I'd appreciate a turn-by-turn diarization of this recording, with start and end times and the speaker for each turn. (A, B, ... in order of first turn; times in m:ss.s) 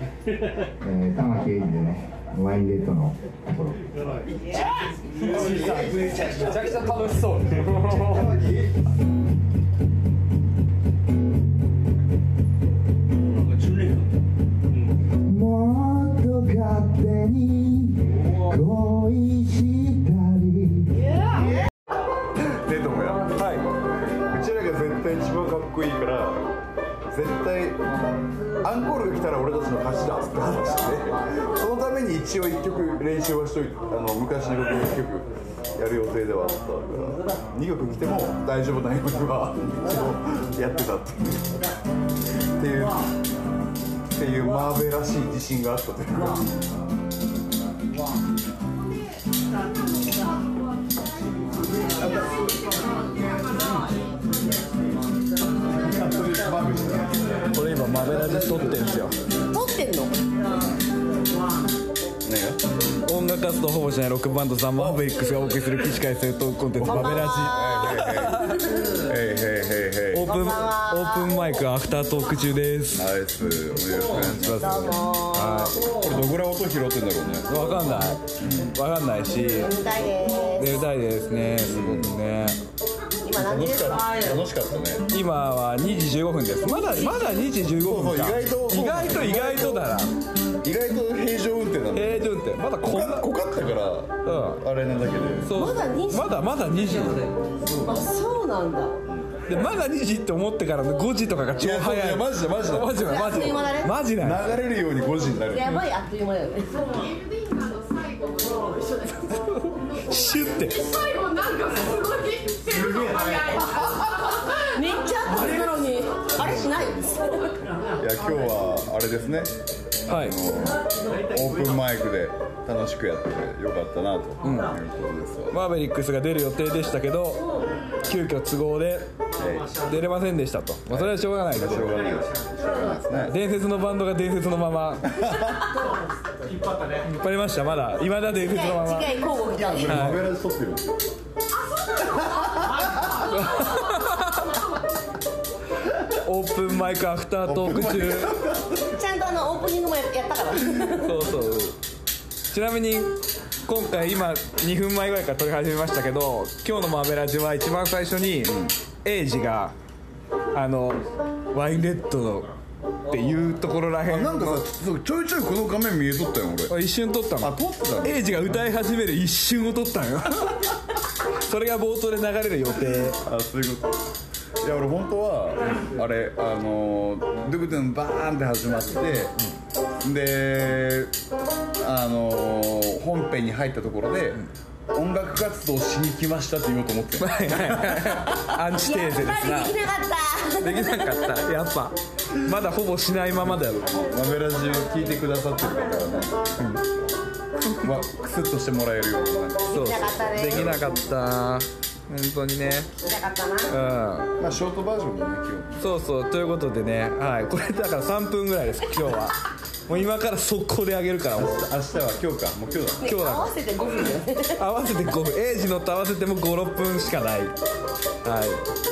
0:00.8-0:03.9 A
0:05.3-0:08.2 B
0:05.3-0:06.4 C
0:08.1-0:08.4 C
0:15.2-0:21.1 A
0:22.4-0:23.3 C
0:23.3-0:23.6 B
0:24.2-0:26.4 C
0:27.1-0:27.8 C
0:28.6-0:41.6 C
0:42.6-0:43.0 C
0:44.1-0:46.5 C
0:52.3-0:53.5 D
0:55.7-0:57.2 C
0:57.5-0:59.2 B
0:59.5-1:00.2 E
1:02.2-1:02.6 C
1:03.0-1:08.6 B
1:06.8-1:08.4 C
1:06.8-1:08.8 E
1:09.0-1:10.3 C
1:10.1-1:13.1 B
1:10.2-1:11.4 E
1:12.9-1:14.7 C
1:14.1-1:16.1 B
1:14.6-1:15.8 E
1:15.9-1:17.5 C
1:17.5-1:19.7 B
1:18.4-1:18.7 C
1:19.6-1:20.8 E
1:20.6-1:22.6 B
1:21.6-1:22.1 C
1:23.2-1:24.3 E
1:23.3-1:25.0 C
1:25.1-1:30.1 B
1:26.7-1:27.3 E
1:27.8-1:29.8 C
1:30.6-1:35.5 C
1:31.9-1:33.3 B
1:34.2-1:34.6 B
1:35.4-1:37.3 B
1:35.5-1:36.3 E
1:37.8-1:38.9 E
1:39.0-1:39.4 C
1:39.4-1:44.5 B
1:41.6-1:43.0 C
1:42.9-1:43.9 E
1:44.2-1:45.8 C
1:45.4-1:47.1 E
1:47.0-1:49.1 D
1:49.3-1:50.9 B
1:50.9-1:53.6 D
1:53.4-1:53.8 E
1:54.4-1:57.5 E
1:58.0-1:59.5 C
2:00.1-2:00.4 B
2:00.1-2:05.6 C
2:04.4-2:04.7 B
2:05.5-2:09.1 B
2:09.3-2:09.8 C
2:09.8-2:12.0 B
2:10.9-2:13.4 C
2:13.1-2:15.2 B
2:15.2-2:15.6 C
2:16.8-2:19.2 B
2:18.4-2:20.0 E
2:19.5-2:21.0 C
2:19.8-2:20.3 B
2:23.2-2:24.6 B
2:26.2-2:28.3 B
2:27.4-2:28.7 C
2:28.9-2:31.2 E
2:31.0-2:31.8 B
2:32.5-2:39.7 B
2:38.4-2:38.7 C
2:40.5-2:42.5 B
2:43.1-2:44.6 B
2:44.0-2:46.7 C
2:46.7-2:50.7 B
2:47.4-2:48.7 C
2:51.4-2:53.2 B
2:53.2-2:54.0 C
2:54.6-2:59.4 C
3:00.0-3:01.1 C
3:01.8-3:08.4 C
3:07.2-3:09.8 B
3:08.8-3:11.3 E
3:10.6-3:13.8 B
3:13.8-3:16.5 C
3:17.8-3:21.1 C
3:19.7-3:20.7 E
3:19.7-3:22.9 B
3:23.0-3:23.8 E
3:23.7-3:24.3 B
3:24.4-3:25.8 C
3:25.8-3:31.6 B
3:31.4-3:33.1 C
3:33.0-3:34.6 E
3:33.0-3:33.6 B
3:34.6-3:37.5 B
3:38.2-3:38.6 B